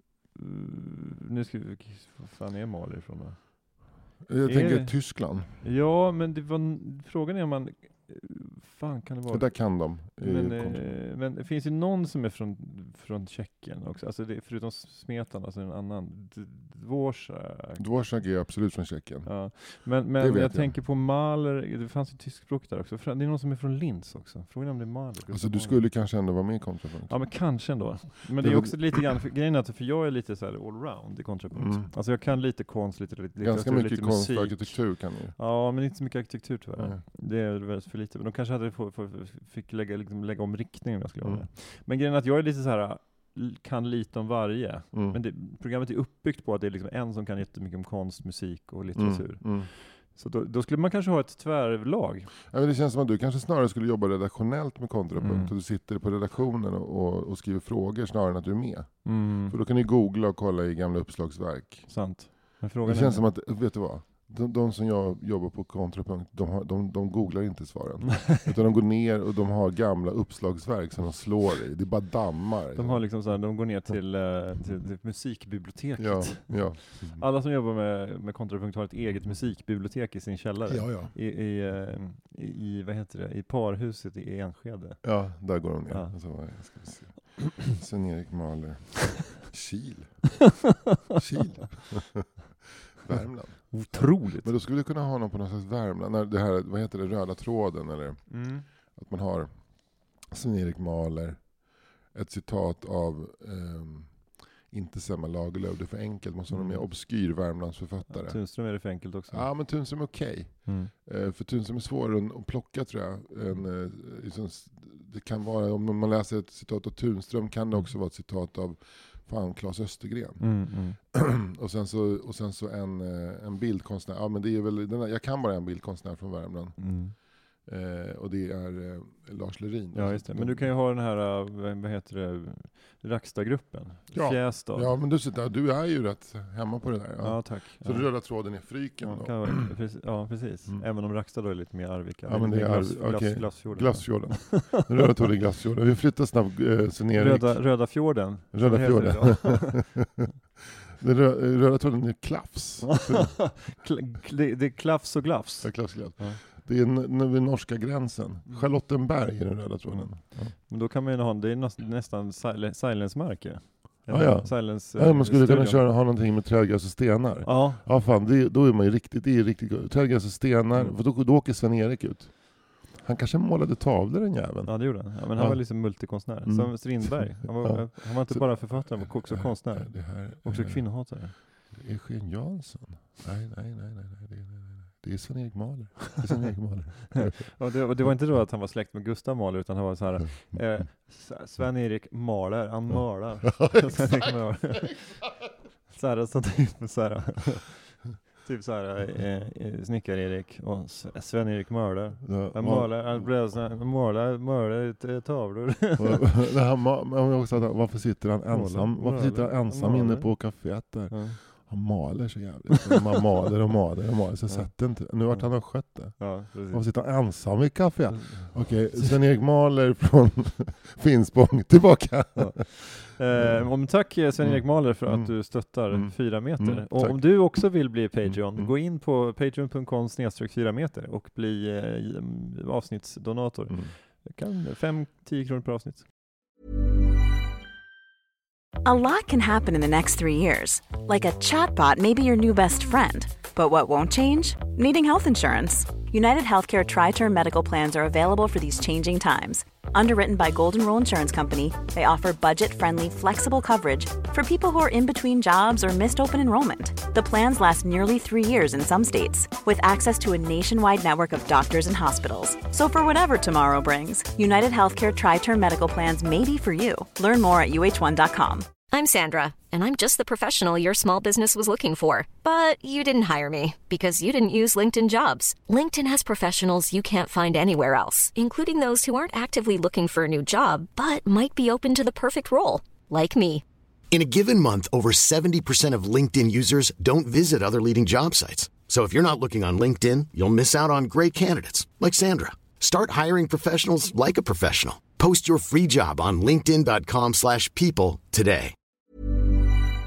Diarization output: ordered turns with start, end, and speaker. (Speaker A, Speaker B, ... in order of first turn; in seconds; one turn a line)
Speaker A: 0.3-17.8
Speaker B: 4.2-5.6
Speaker B: 9.3-11.0
Speaker B: 17.8-20.8
Speaker A: 19.2-25.9
Speaker B: 25.3-28.9
Speaker A: 27.1-52.3
Speaker B: 31.5-31.9
Speaker B: 33.4-35.4
Speaker B: 36.8-37.0
Speaker B: 41.2-41.5
Speaker B: 44.9-45.2
Speaker B: 48.9-49.7
Speaker B: 52.5-62.3
Speaker A: 55.2-55.5
Speaker A: 59.0-59.6
Speaker A: 61.9-63.3
Speaker B: 62.8-73.1
Speaker A: 68.2-68.5
Speaker A: 72.7-86.8
Speaker B: 76.0-77.2
Speaker B: 80.7-81.1
Speaker B: 85.0-90.5
Speaker B: 91.1-92.3
Speaker B: 93.0-130.7
Speaker A: 93.7-94.5
Speaker A: 98.3-98.7
Speaker A: 106.5-106.9
Speaker A: 108.1-110.1
Speaker A: 110.7-110.9
Speaker A: 120.4-121.0
Speaker A: 126.8-127.1
Speaker A: 129.9-134.9
Speaker B: 134.1-139.6
Speaker A: 137.2-144.8
Speaker B: 142.2-150.2
Speaker A: 147.1-150.0
Speaker B: 151.0-153.5
Speaker A: 152.9-156.4
Speaker B: 155.6-160.6
Speaker A: 159.9-165.9
Speaker B: 164.1-187.5
Speaker A: 167.4-167.8
Speaker A: 170.7-171.0
Speaker A: 174.7-181.3
Speaker A: 187.2-195.3
Speaker B: 193.8-194.3
Speaker A: 195.9-206.3
Speaker B: 202.2-203.5
Speaker B: 206.0-228.8
Speaker A: 208.5-211.7
Speaker A: 214.5-217.4
Speaker A: 218.1-219.1
Speaker A: 222.3-236.1
Speaker B: 233.7-233.9
Speaker C: 238.8-268.8
Speaker D: 268.9-283.6
Speaker E: 284.1-298.7